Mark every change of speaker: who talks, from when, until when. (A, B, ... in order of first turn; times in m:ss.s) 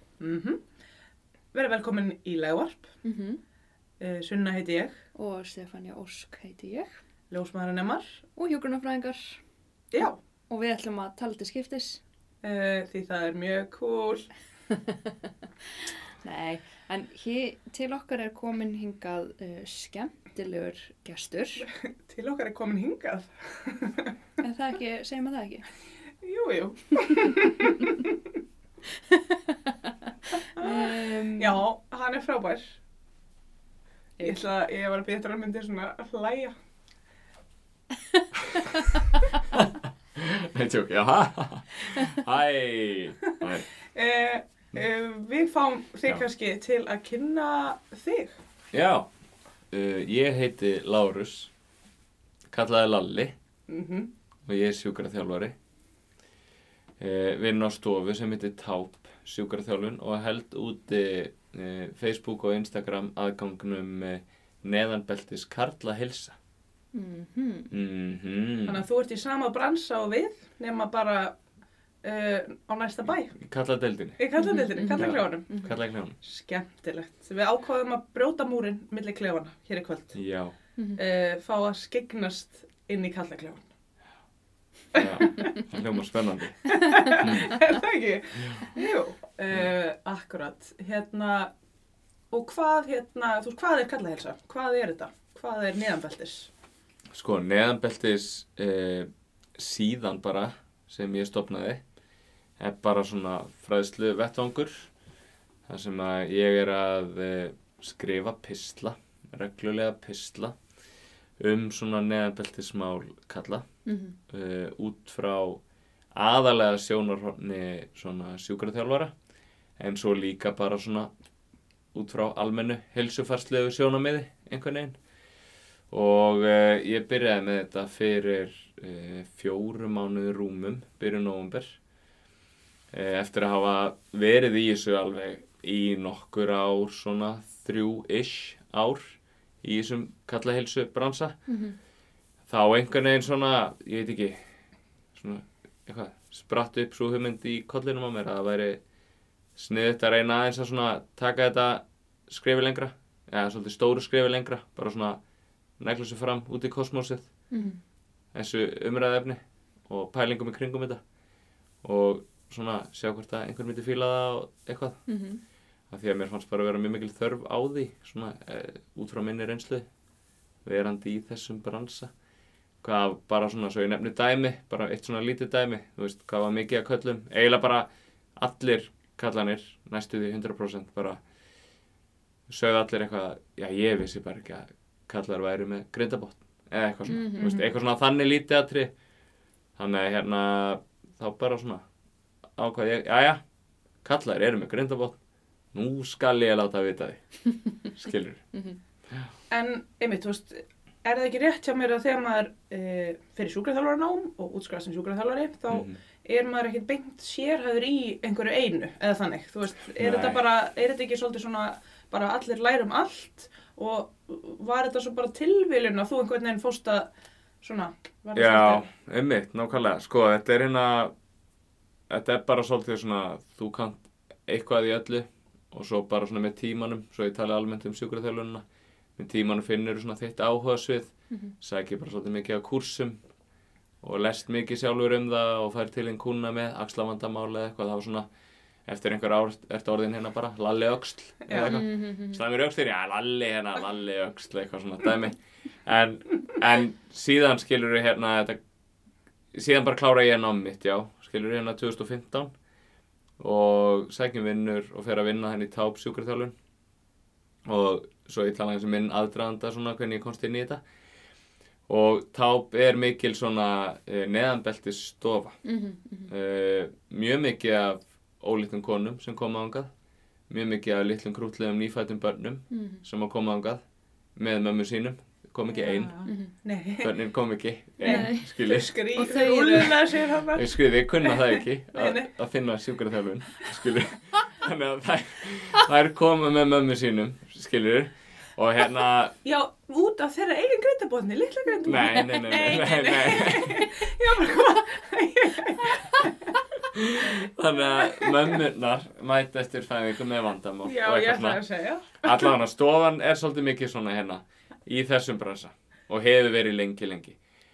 0:00.2-0:00.6 A
0:01.5-0:02.9 A
0:03.0-0:03.4 B
0:04.0-0:05.0 A
0:05.1-0:07.0 B
0:07.3-0:08.2 A
0:08.4-0:09.4 B
0:09.9-0:10.2 A
0:10.0-0:12.0 B
0:12.4-0:14.3 A
0:14.7-0:15.1 B
0:16.2-0:21.7 B
0:21.6-0:24.1 A
0:24.4-0:25.6 B
0:26.2-0:28.2 A
0:29.1-0:29.7 B
0:30.5-0:32.8 A
0:30.6-0:31.6 B
0:34.2-0:36.5 A
0:39.5-0:43.7 C
0:43.9-0:48.4 A
0:48.7-0:49.1 C
0:49.7-0:51.5 C
0:52.5-0:53.3 C
0:53.7-0:54.1 A
0:54.4-0:55.5 C
0:57.0-1:06.4 C
1:06.9-1:07.7 B
1:07.7-1:08.8 C
1:08.7-1:11.4 A
1:12.0-1:13.4 A
1:13.4-1:14.2 C
1:14.2-1:15.7 A
1:14.4-1:15.7 B
1:14.9-1:16.2 C
1:16.2-1:20.2 A
1:20.1-1:20.5 C
1:20.8-1:21.0 B
1:21.0-1:23.6 A
1:24.9-1:27.4 C
1:25.0-1:25.5 A
1:26.7-1:31.5 A
1:32.3-1:36.5 A
1:37.1-1:41.8 C
1:42.6-1:44.9 C
1:45.7-1:50.6 C
1:51.4-1:53.6 C
1:53.8-1:54.2 B
1:54.3-1:55.6 C
1:56.1-1:59.1 C
1:59.8-2:01.1 C
2:01.9-2:05.0 C
2:05.9-2:11.8 C
2:12.9-2:21.4 C
2:21.5-2:21.8 B
2:22.5-2:24.4 C
2:25.1-2:28.8 C
2:29.6-2:35.2 C
2:35.8-2:37.3 C
2:37.5-2:37.8 B
2:38.3-2:41.0 C
2:41.8-2:45.0 C
2:45.1-2:45.4 B
2:45.9-2:49.8 C
2:50.6-2:52.1 C
2:52.8-3:01.2 C
3:02.5-3:08.9 C
3:07.1-3:07.5 B
3:07.4-3:07.7 A
3:09.8-3:11.8 C
3:12.6-3:13.4 C
3:14.0-3:15.2 C
3:15.7-3:18.4 C
3:19.5-3:37.1 A
3:25.7-3:26.0 C
3:30.0-3:30.4 C
3:37.6-3:38.9 A
3:38.3-3:41.1 C
3:42.1-3:48.6 C
3:49.2-3:53.2 C
3:54.0-3:58.2 C
3:58.9-4:08.6 C
4:01.5-4:01.8 A
4:01.5-4:02.4 B
4:09.5-4:12.5 C
4:13.4-4:16.5 C
4:17.7-4:20.8 C
4:21.9-4:25.6 C
4:25.6-4:26.3 B
4:26.3-4:29.9 C
4:30.5-4:33.8 C
4:32.7-4:33.0 B
4:34.4-4:36.1 C
4:35.7-4:37.1 A
4:36.2-4:36.5 B
4:37.0-4:39.0 C
4:38.0-4:42.3 A
4:38.0-4:40.2 B
4:40.5-4:49.3 C
4:49.4-4:56.5 A
4:51.8-4:53.9 C
4:51.8-4:52.4 B
4:56.9-5:01.6 C
5:00.8-5:02.5 A
5:02.2-5:07.4 C